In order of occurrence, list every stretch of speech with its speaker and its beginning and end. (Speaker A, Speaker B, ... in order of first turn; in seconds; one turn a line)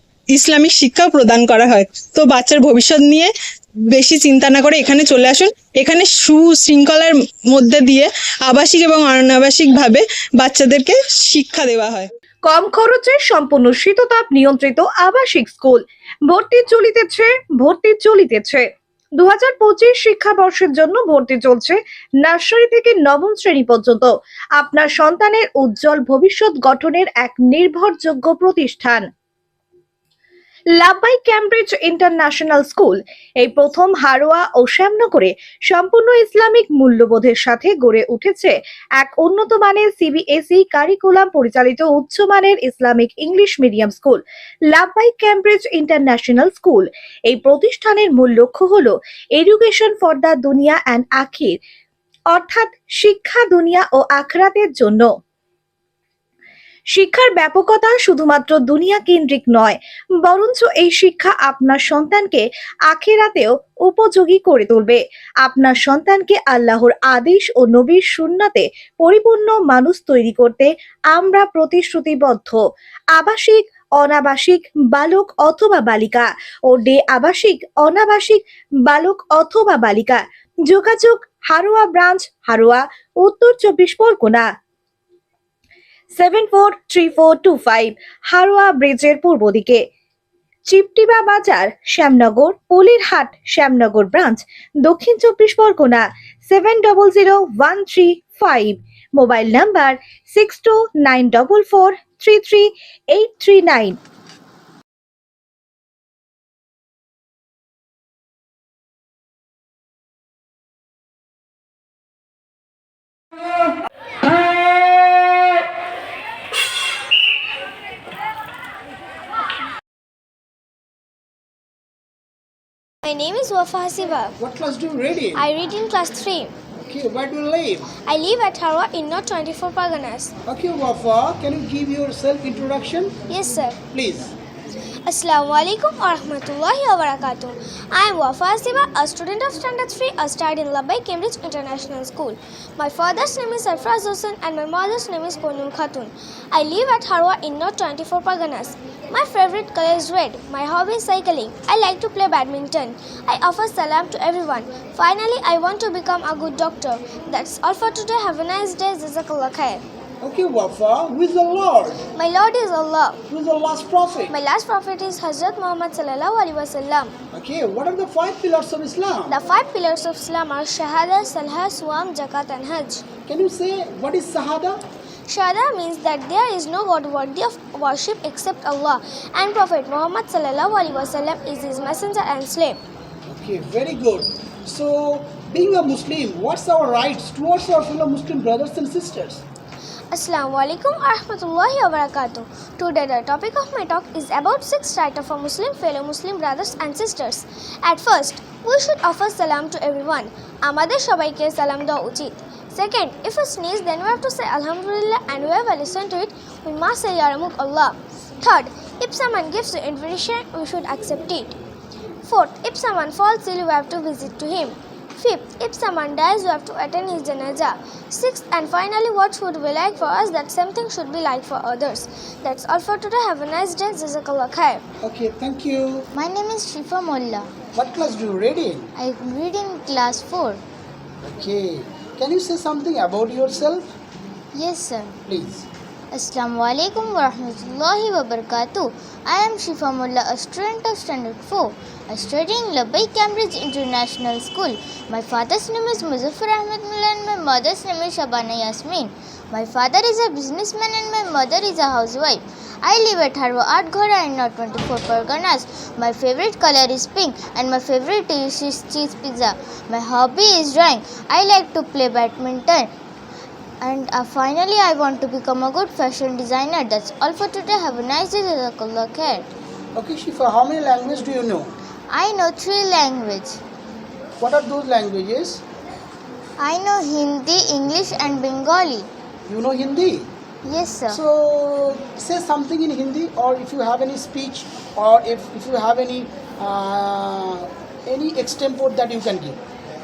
Speaker A: 0.4-3.2
Speaker A: 4.0-11.9
Speaker B: 12.4-18.7
Speaker B: 19.2-29.1
Speaker B: 30.8-51.6
Speaker B: 52.3-55.1
Speaker B: 56.9-72.6
Speaker B: 73.2-84.5
Speaker B: 86.1-89.8
Speaker B: 90.7-104.0
Speaker C: 123.0-124.3
Speaker D: 124.4-125.5
Speaker C: 125.3-126.5
Speaker D: 126.8-127.9
Speaker C: 128.1-130.3
Speaker D: 130.4-133.2
Speaker C: 133.3-133.8
Speaker D: 133.9-134.3
Speaker C: 135.1-159.8
Speaker D: 160.2-162.0
Speaker C: 162.1-163.2
Speaker D: 163.3-164.3
Speaker C: 164.3-167.1
Speaker D: 167.3-169.4
Speaker C: 169.3-173.0
Speaker D: 173.3-174.8
Speaker C: 175.3-182.8
Speaker D: 183.3-189.4
Speaker C: 190.1-211.5
Speaker C: 212.2-224.8
Speaker D: 225.0-226.1
Speaker E: 226.1-227.5
Speaker D: 227.7-228.9
Speaker E: 229.0-230.6
Speaker D: 231.3-233.9
Speaker E: 234.5-235.2
Speaker D: 235.2-235.7
Speaker E: 236.1-262.9
Speaker E: 263.8-269.5
Speaker D: 269.9-271.7
Speaker E: 272.1-273.6
Speaker D: 274.4-275.6
Speaker E: 276.6-279.1
Speaker D: 279.4-280.3
Speaker E: 280.6-281.2
Speaker D: 281.1-289.6